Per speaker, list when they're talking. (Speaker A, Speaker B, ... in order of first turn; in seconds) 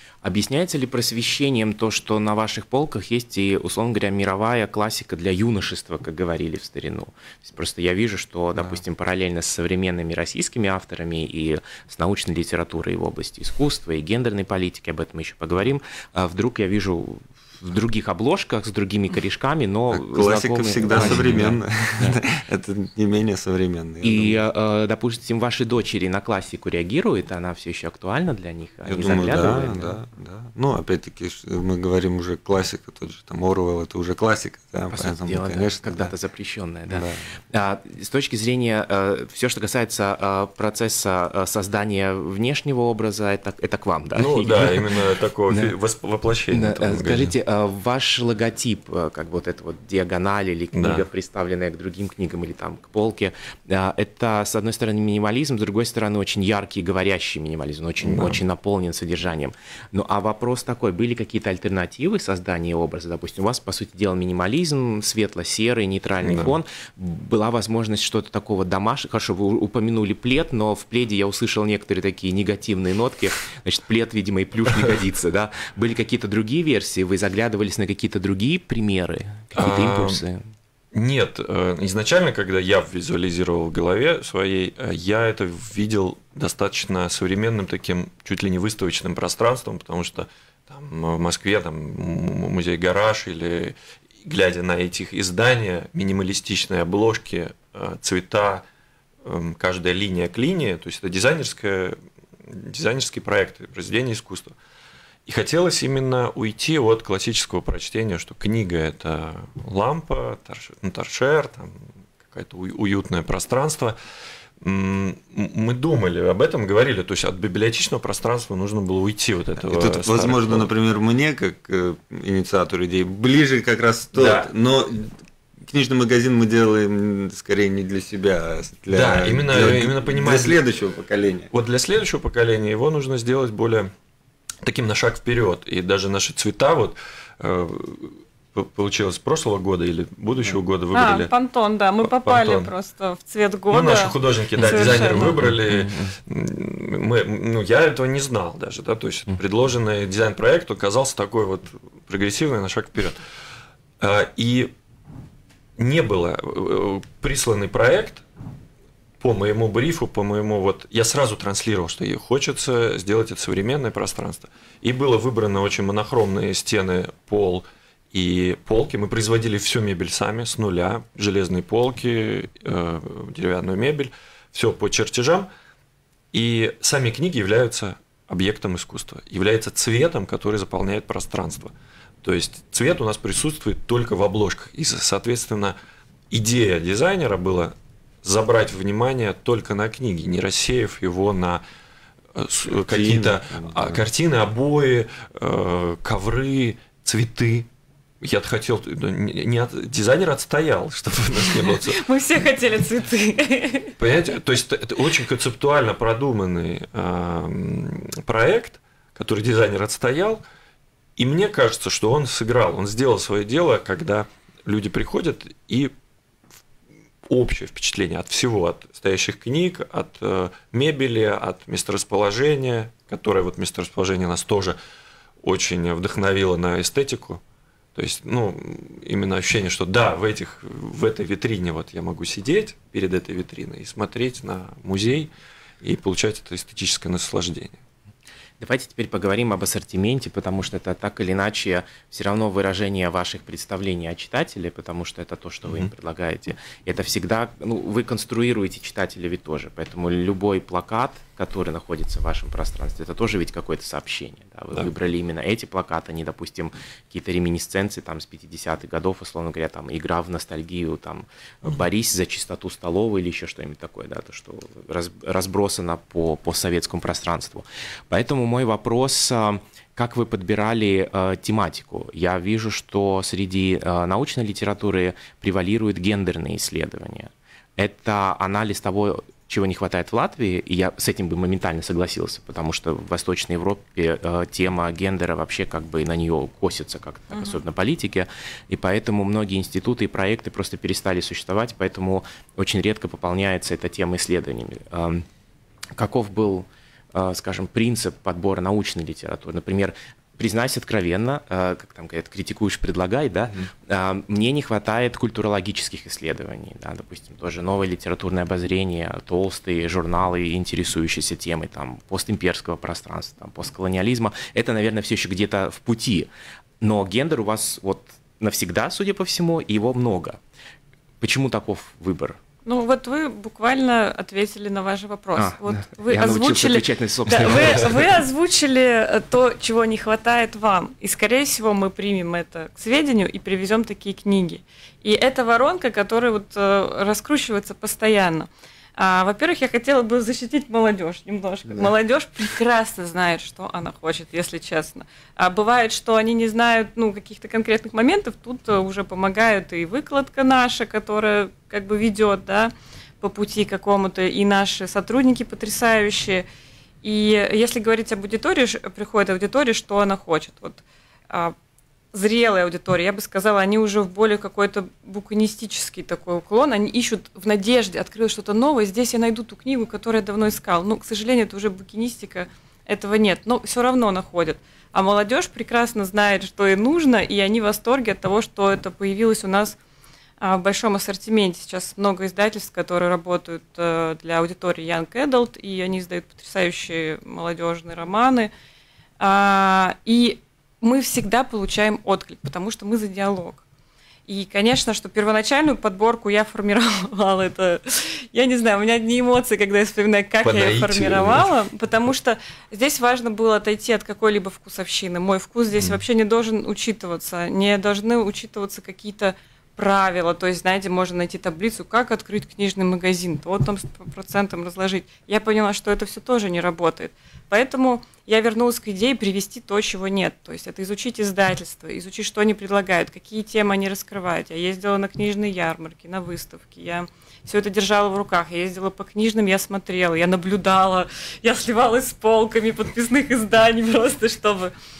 Speaker A: 0.2-22.2, 24.0-30.0, 34.9-44.9, 46.5-80.4, 144.6-146.2, 238.6-295.3, 296.0-316.3, 316.8-320.4, 321.2-322.4, 325.4-328.0
Speaker B: 19.9-24.4, 28.9-36.1, 36.9-37.3, 119.6-131.5, 192.7-194.0
Speaker C: 44.1-47.3, 50.7-51.1, 58.0-58.4, 66.2-66.6, 79.6-80.2, 80.9-98.6, 99.2-104.5, 105.3-114.0, 114.6-120.7, 124.1-124.5, 128.9-130.6, 131.5-133.9, 134.6-141.3, 142.0-142.7, 143.7-153.2, 154.0-154.7, 155.8-158.2, 159.2-175.5, 176.3-185.8, 186.3-191.6, 192.3-197.7, 198.2-202.0, 204.0-210.4, 211.2-215.9, 217.3-224.8, 225.4-227.4, 227.9-235.3, 235.8-237.8, 400.4-401.5
Speaker D: 140.9-145.4, 201.7-204.0, 287.3-287.6, 322.6-356.4, 357.0-361.6, 362.1-379.8, 380.4-388.5, 389.2-393.6, 394.3-434.7